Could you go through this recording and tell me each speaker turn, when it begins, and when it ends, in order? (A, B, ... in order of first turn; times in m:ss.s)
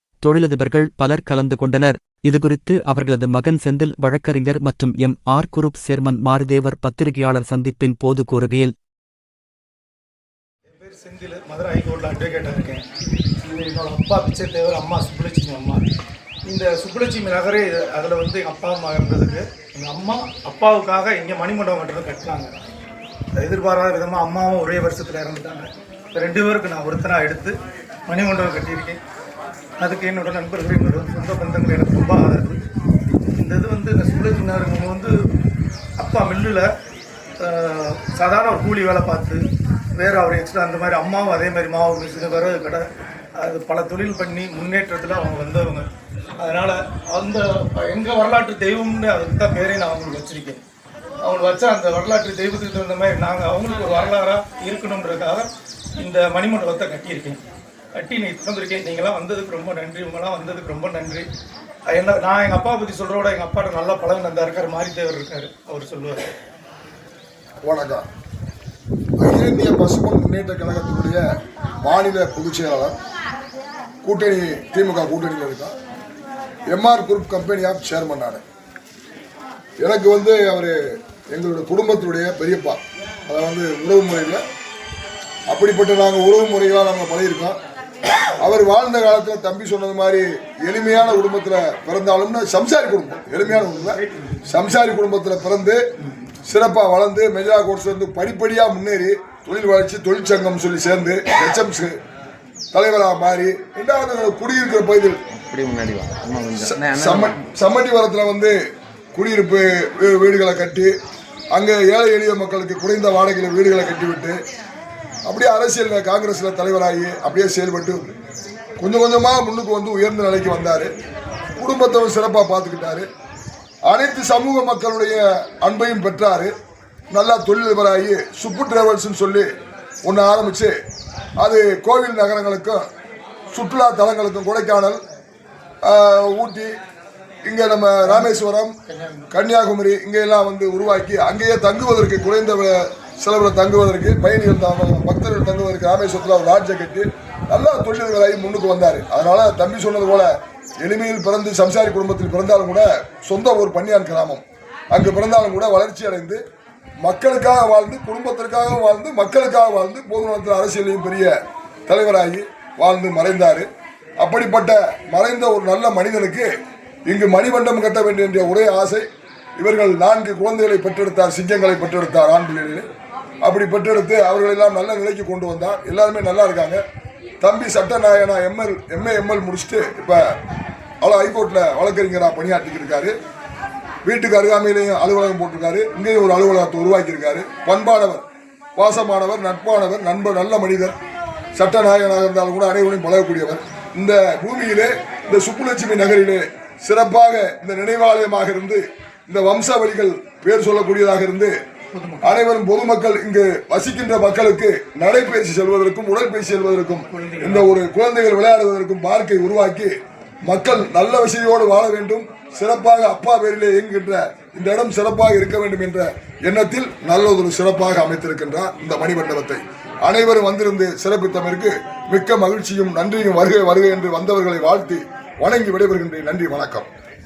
0:00.2-0:08.7 A
0:10.7-0:12.8 B
0:13.4-0:15.8 B
0:16.4-0:22.5 B
0:23.4-0:27.6 B
0:28.1-0:29.0 B
0:29.8-0:32.6 B
0:33.3-0:35.1 B
0:36.0-0:36.7 B
0:37.4-0:39.4 B
0:40.0-0:42.8 B
0:43.4-0:45.9 B
0:46.4-0:50.6 B
0:51.2-0:57.4 B
0:57.9-1:01.3 B
1:01.9-1:06.3 B
1:07.6-1:08.0 C
1:09.2-1:11.2 C
1:11.8-1:13.0 C
1:14.0-1:15.7 C
1:16.7-1:18.4 C
1:19.8-1:20.8 C
1:21.3-1:24.4 C
1:25.5-1:27.6 C
1:28.4-1:35.8 C
1:33.5-1:34.5 B
1:36.4-1:42.0 C
1:42.7-1:45.2 C
1:45.3-1:47.4 D
1:46.6-1:48.6 C
1:49.1-1:50.9 C
1:51.5-1:54.4 C
1:55.2-1:58.2 C
1:58.8-2:00.9 C
2:01.6-2:03.1 C
2:03.9-2:06.5 C
2:07.1-2:09.5 C
2:10.0-2:10.7 C
2:11.4-2:12.8 C
2:13.5-2:15.0 C
2:15.8-2:16.7 C
2:17.4-2:18.8 C
2:18.0-2:18.4 B
2:18.9-2:19.3 B
2:19.3-2:30.3 C
2:30.8-2:36.4 C
2:37.0-2:41.3 C
2:41.9-2:43.6 C
2:44.2-2:46.5 C
2:47.1-2:49.0 C
2:49.6-2:52.8 C
2:53.4-2:56.8 C
2:57.4-3:00.2 C
3:01.0-3:03.1 C
3:04.0-3:08.2 C
3:08.8-3:11.0 C
3:11.6-3:21.5 C
3:21.9-3:22.4 B
3:22.2-3:29.9 C
3:27.1-3:27.7 B
3:30.4-3:46.9 C